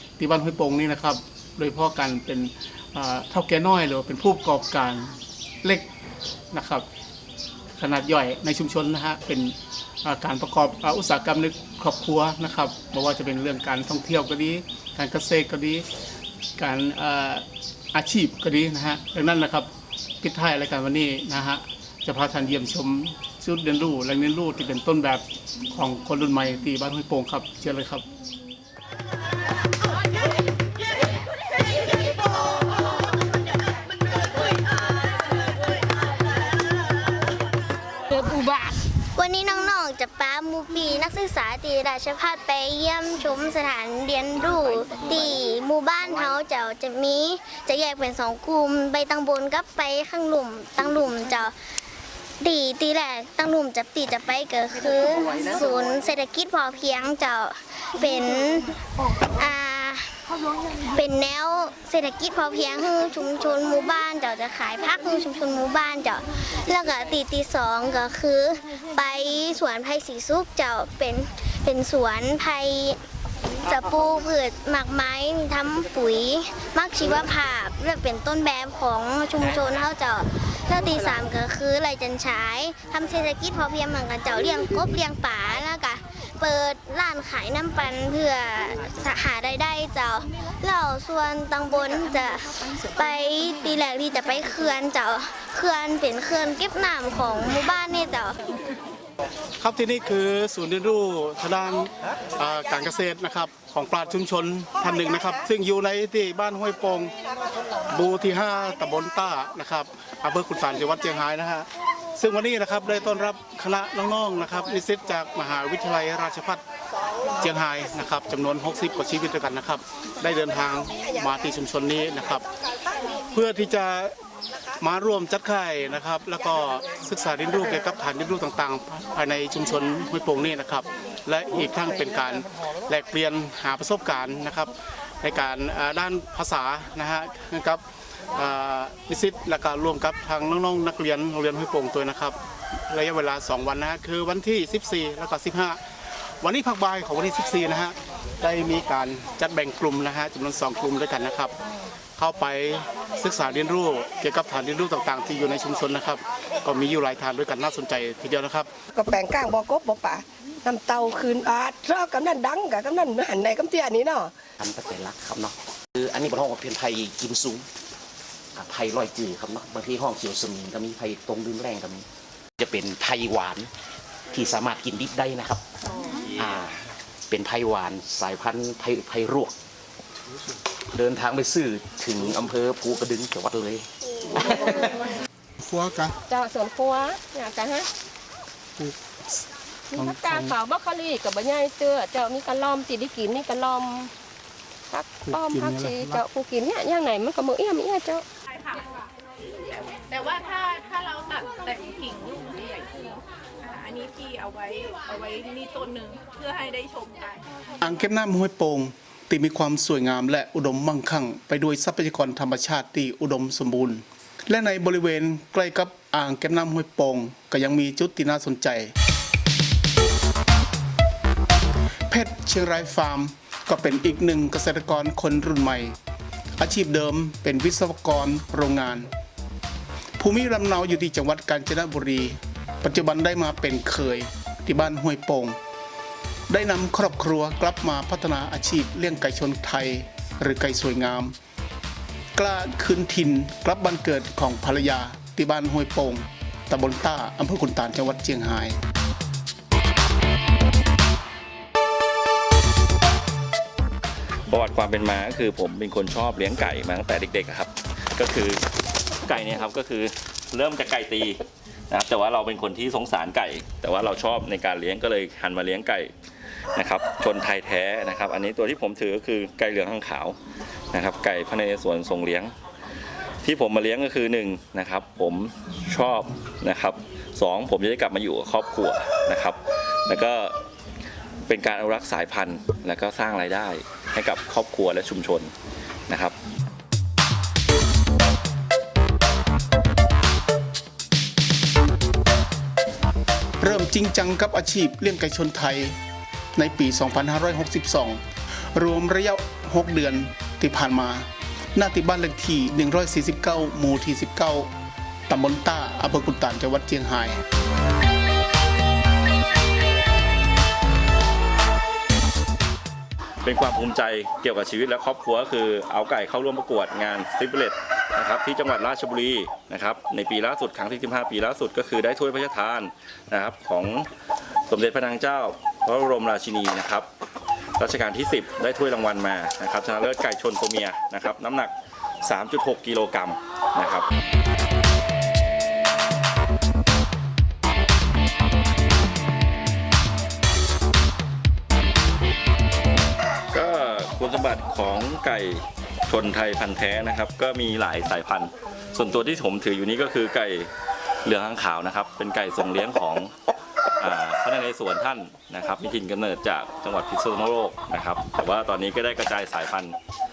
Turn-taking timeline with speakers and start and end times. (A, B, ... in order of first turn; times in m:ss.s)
0:00.2-0:05.9 A
0:06.5-0:06.8 A
0:07.8-0:15.8 A
0:16.6-0:19.7 A
0:20.2-0:28.0 A
0:38.2-0:38.8 B
0:39.2-0:51.5 C
0:52.4-1:00.2 C
1:00.9-1:13.0 C
1:13.6-1:38.4 C
1:39.6-1:47.1 A
1:47.9-1:56.6 A
1:57.4-2:02.5 A
2:03.3-2:04.1 A
2:04.8-2:17.8 A
2:18.3-2:22.4 A
2:22.9-2:25.8 A
2:26.4-2:31.6 A
2:32.2-2:38.7 A
2:38.9-2:44.3 D
2:44.6-2:47.7 E
2:48.6-2:52.0 E
2:52.6-2:53.7 E
2:54.3-2:55.6 E
2:56.4-2:59.5 E
3:00.9-3:05.1 E
3:05.6-3:06.1 A
3:06.3-3:07.9 B
3:09.9-3:14.1 B
3:10.0-3:10.5 A
3:14.9-3:18.2 B
3:15.2-3:16.2 A
3:18.5-3:19.0 F
3:19.9-3:27.4 F
3:27.8-3:38.9 A
3:42.1-3:46.0 A
3:46.6-3:49.1 A
3:50.2-3:55.6 A
3:56.5-4:01.4 A
4:02.4-4:08.8 A
4:14.5-4:18.6 G
4:19.2-4:26.1 G
4:26.8-4:30.4 G
4:30.9-4:32.5 G
4:33.4-4:40.6 G
4:41.5-4:45.5 G
4:46.1-4:46.4 G
4:53.6-4:56.0 A
4:56.6-4:58.2 A
4:58.7-5:04.7 A
5:05.3-5:07.4 A
5:13.4-5:24.1 G
5:24.7-5:27.1 G
5:27.8-5:34.1 G
5:43.5-5:50.7 G
5:51.2-5:53.3 G
5:54.0-6:00.0 G